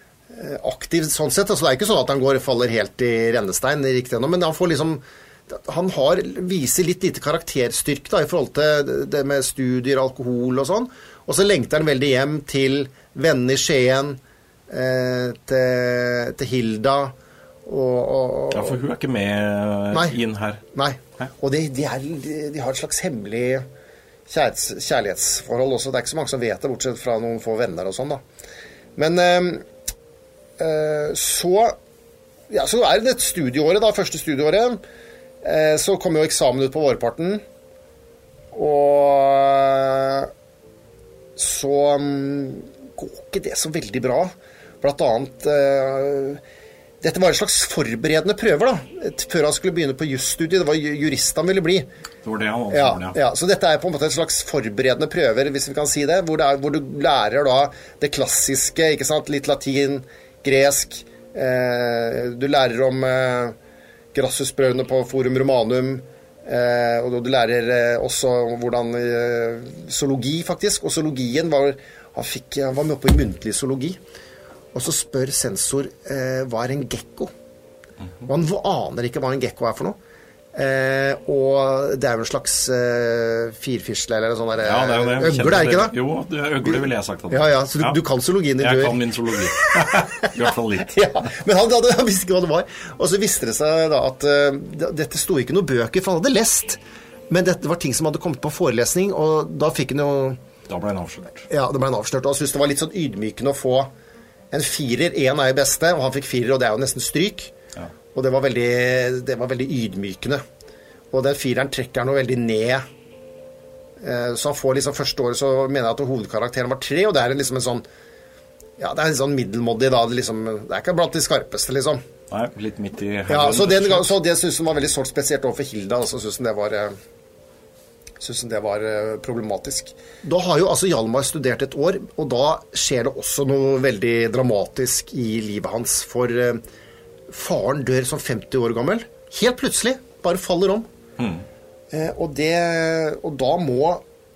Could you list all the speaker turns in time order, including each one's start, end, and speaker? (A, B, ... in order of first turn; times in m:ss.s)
0:00.3-0:17.1 A
0:17.6-0:18.8 A
0:18.5-0:20.6 B
0:19.9-0:20.2 A
0:20.7-0:23.6 A
0:24.3-0:28.2 A
0:29.0-0:29.6 A
0:30.6-0:31.8 A
0:32.5-0:34.8 A
0:35.4-0:37.4 A
0:38.5-0:40.3 A
0:41.4-0:46.4 A
0:47.0-0:51.9 A
0:52.2-0:53.2 B
0:52.7-1:03.6 A
1:04.1-1:14.0 A
1:14.7-1:17.3 A
1:18.2-1:20.0 A
1:20.5-1:26.0 A
1:24.6-1:28.0 B
1:27.3-1:40.4 A
1:28.6-1:31.3 B
1:40.7-1:41.5 B
1:41.5-1:43.9 A
1:44.5-1:47.5 A
1:48.1-1:50.4 A
1:51.1-1:52.8 A
1:54.0-1:57.8 A
1:58.8-2:02.0 A
2:02.3-2:04.1 B
2:03.3-2:07.0 A
2:08.2-2:16.6 A
2:17.3-2:20.9 A
2:21.2-2:21.4 B
2:21.9-2:24.0 A